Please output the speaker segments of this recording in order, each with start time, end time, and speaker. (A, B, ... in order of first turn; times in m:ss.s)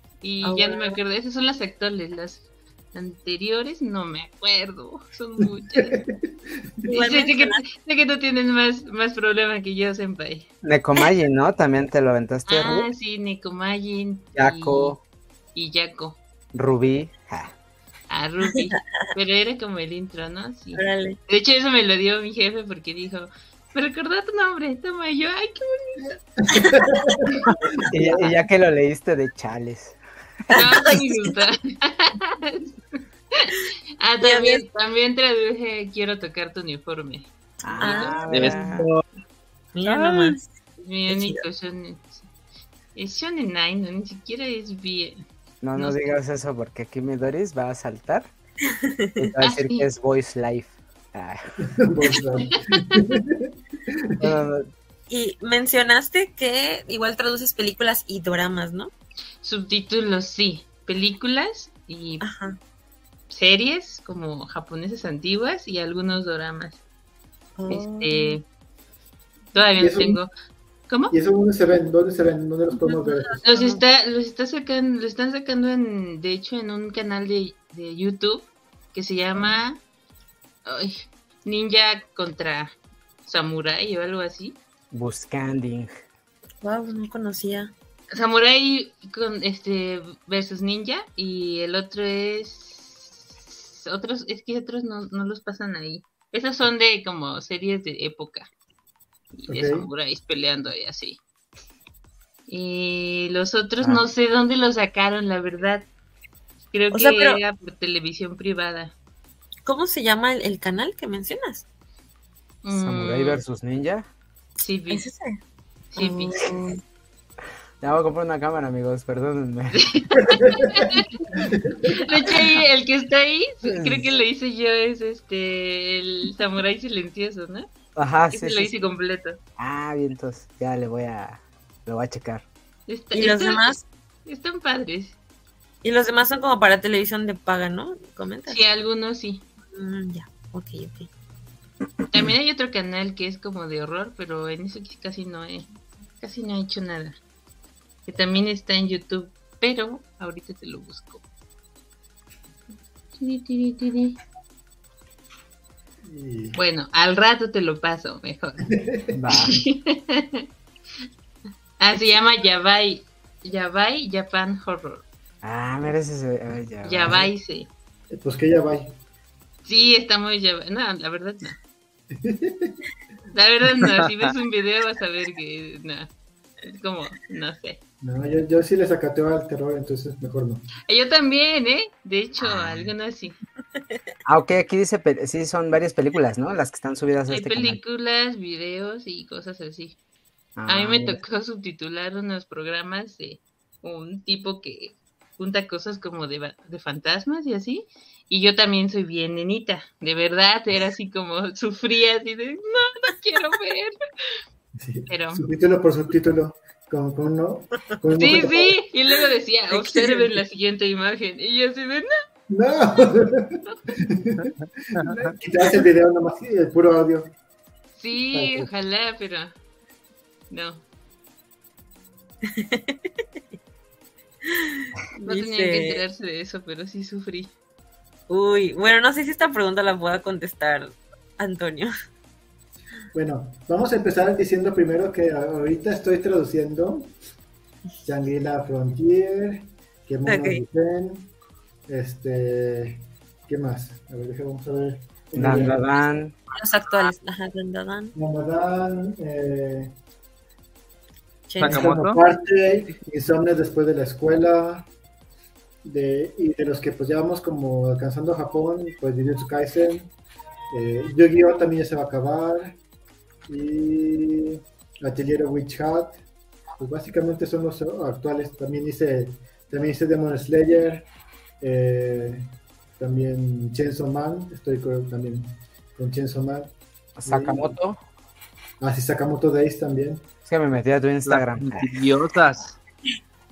0:00.2-0:06.0 A
0:00.4-0:01.0 B
0:05.8-0:06.3 C
0:06.9-0:07.6 B
0:06.9-0:10.5 A
0:10.6-0:12.9 D
0:12.5-0:15.0 A
0:14.4-0:15.0 D
0:15.6-0:16.2 A
0:16.5-0:17.5 D
0:18.1-0:26.2 A
0:20.8-0:21.2 B
0:26.4-0:27.8 C
0:27.8-0:28.3 B
0:27.9-0:30.0 D
0:30.5-0:38.5 A
0:30.6-0:31.3 B
0:34.2-0:34.6 B
0:37.6-0:38.9 D
0:37.8-0:38.2 B
0:38.3-0:39.0 E
0:39.7-0:40.5 B
0:39.9-0:40.4 D
0:40.8-0:42.3 A
0:41.1-0:41.4 B
0:43.0-0:45.2 A
0:45.6-0:48.3 D
0:45.8-0:46.1 A
0:48.6-0:49.3 B
0:49.2-0:51.7 D
0:49.4-0:49.9 A
0:51.8-0:54.3 C
0:52.6-0:52.9 A
0:54.2-0:54.7 D
0:55.1-0:58.9 B
0:59.4-1:02.2 A
1:02.2-1:02.6 B
1:03.3-1:06.8 A
1:07.6-1:08.4 B
1:07.7-1:08.4 A
1:09.5-1:10.3 A
1:09.8-1:10.2 C
1:11.1-1:13.4 C
1:12.7-1:13.8 B
1:13.4-1:19.8 A
1:20.6-1:22.8 A
1:23.3-1:24.6 A
1:24.9-1:25.9 D
1:26.6-1:27.7 B
1:28.1-1:38.5 A
1:39.3-1:41.2 A
1:39.5-1:39.9 C
1:42.5-1:45.9 A
1:43.8-1:44.1 D
1:46.7-1:48.9 A
1:46.9-1:47.4 B
1:49.7-1:51.7 B
1:52.6-1:53.4 A
1:52.7-1:54.1 D
1:54.6-1:55.0 A
1:54.9-1:55.4 B
1:55.9-1:56.5 A
1:56.0-1:56.8 B
1:57.8-1:59.8 D
1:59.8-2:01.2 A
2:00.3-2:02.0 C
2:01.9-2:07.7 A
2:03.6-2:04.0 D
2:08.0-2:08.8 D
2:08.3-2:09.4 A
2:09.6-2:12.5 D
2:12.9-2:15.2 A
2:13.1-2:13.8 B
2:15.8-2:18.6 B
2:18.5-2:19.4 A
2:19.7-2:21.1 B
2:22.1-2:25.7 A
2:26.2-2:27.2 A
2:28.1-2:31.2 A
2:33.2-2:34.2 A
2:36.0-2:36.6 C
2:36.6-2:38.7 A
2:38.7-2:39.2 C
2:39.1-2:39.6 D
2:39.3-2:40.5 A
2:41.8-2:45.0 A
2:45.4-2:47.3 D
2:46.8-2:47.7 A
2:48.1-2:49.0 C
2:49.6-2:51.6 A
2:52.1-2:52.8 C
2:53.3-2:56.1 A
2:56.6-2:57.8 A
2:58.0-3:00.6 C
3:00.9-3:03.4 A
3:02.4-3:02.9 D
3:04.3-3:07.8 D
3:07.3-3:10.0 A
3:10.6-3:11.2 D
3:10.7-3:24.0 A
3:24.8-3:28.8 C
3:25.1-3:25.4 A
3:28.2-3:32.1 A
3:29.7-3:30.4 B
3:32.5-3:37.3 C
3:35.0-3:35.3 E
3:38.0-3:39.5 A
3:38.3-3:38.7 C
3:40.5-3:40.8 A
3:42.4-3:43.0 B
3:44.5-3:46.0 B
3:45.2-3:47.5 A
3:48.3-3:51.9 B
3:53.1-3:57.1 C
3:58.0-4:01.3 C
4:00.2-4:00.6 B
4:01.9-4:05.8 C
4:05.4-4:06.4 D
4:06.5-4:08.2 B
4:08.2-4:09.9 C
4:11.5-4:11.9 B
4:11.6-4:14.9 C
4:11.6-4:12.2 E
4:15.8-4:20.1 C
4:20.7-4:22.8 C
4:23.5-4:26.2 C
4:26.8-4:31.1 C
4:31.6-4:32.5 C
4:33.0-4:36.7 C
4:37.2-4:38.0 D
4:37.2-4:37.8 C
4:38.8-4:40.3 C
4:40.5-4:42.1 D
4:41.3-4:42.8 E